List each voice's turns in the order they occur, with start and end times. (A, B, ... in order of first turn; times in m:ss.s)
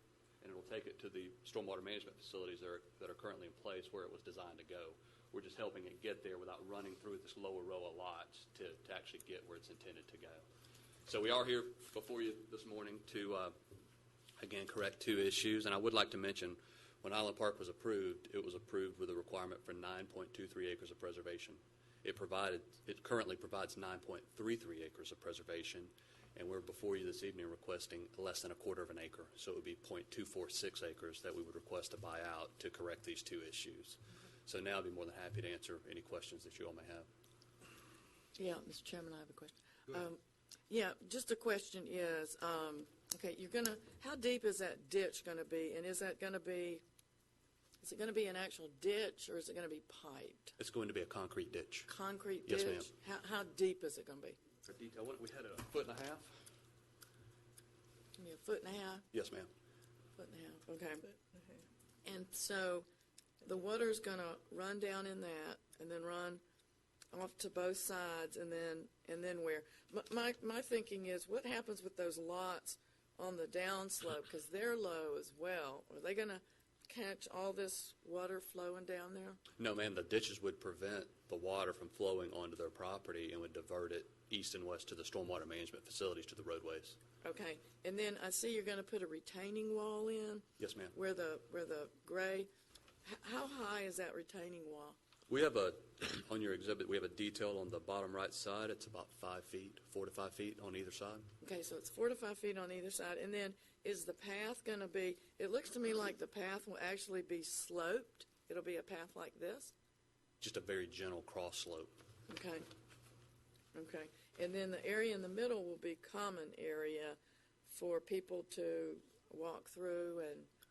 0:00.4-0:10.4 A
0:11.0-0:13.6 A
0:14.4-0:37.1 A
0:38.4-0:46.8 B
0:47.8-0:50.6 B
0:50.6-0:51.9 A
0:51.9-0:54.4 B
0:52.4-0:52.9 A
0:54.6-0:56.4 A
0:58.2-0:59.1 B
0:59.1-0:59.5 A
1:00.2-1:01.0 B
1:02.0-1:02.8 B
1:03.4-1:06.4 B
1:07.1-1:19.4 B
1:19.6-1:27.0 A
1:27.2-1:32.5 B
1:30.6-1:30.9 A
1:33.0-1:35.0 B
1:35.3-1:41.3 A
1:41.4-1:49.7 B
1:50.4-1:52.0 A
1:52.3-1:52.6 B
1:53.7-2:00.5 B